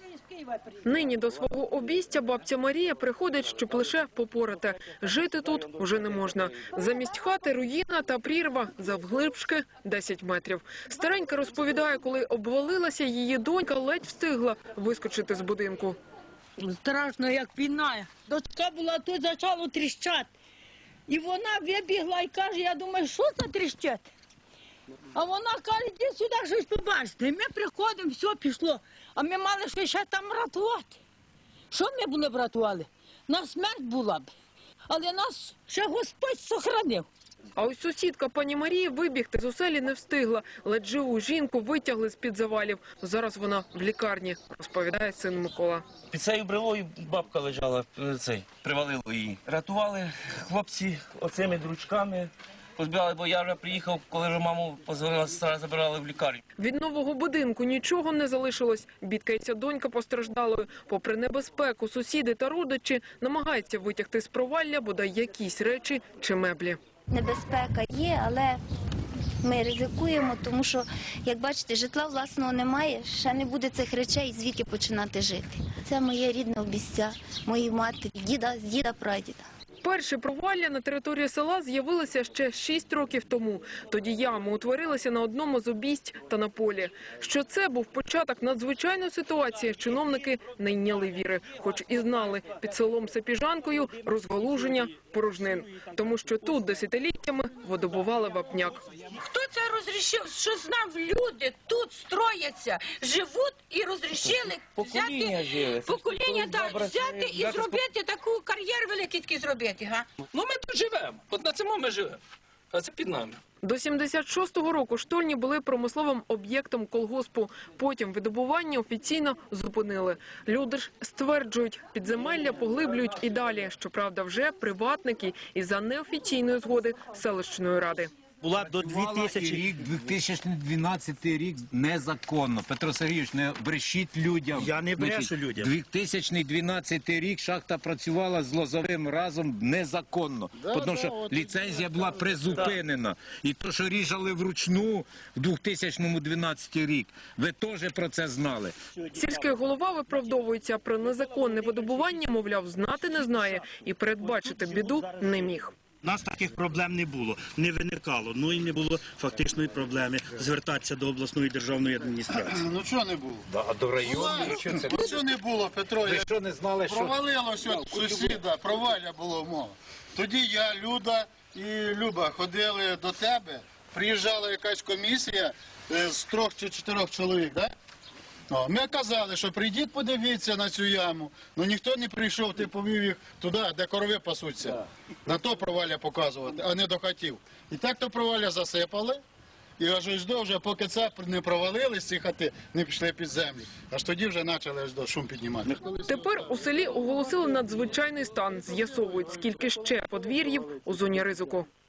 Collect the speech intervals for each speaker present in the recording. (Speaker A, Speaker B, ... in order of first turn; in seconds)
Speaker A: 0.4-0.6, 16.6-20.3, 21.1-24.1, 25.1-31.0, 31.7-34.3, 34.9-37.1
Speaker B: 0.8-16.0, 37.5-45.8, 56.6-66.8, 79.8-98.8, 113.6-128.1, 149.1-155.7, 196.1-201.7
Speaker C: 46.1-56.4, 104.1-107.8
Speaker D: 67.1-68.6, 69.4-79.4
Speaker E: 99.2-110.0
Speaker F: 110.3-112.2, 112.7-113.3
Speaker G: 128.4-129.8, 134.5-135.7, 149.0-149.6, 154.3-155.5, 156.0-162.6
Speaker H: 128.6-148.8, 163.5-165.3, 166.0-168.4
Speaker I: 140.5-142.7, 162.4-163.5, 164.0-166.3, 166.8-177.7, 178.5-189.2, 189.8-196.6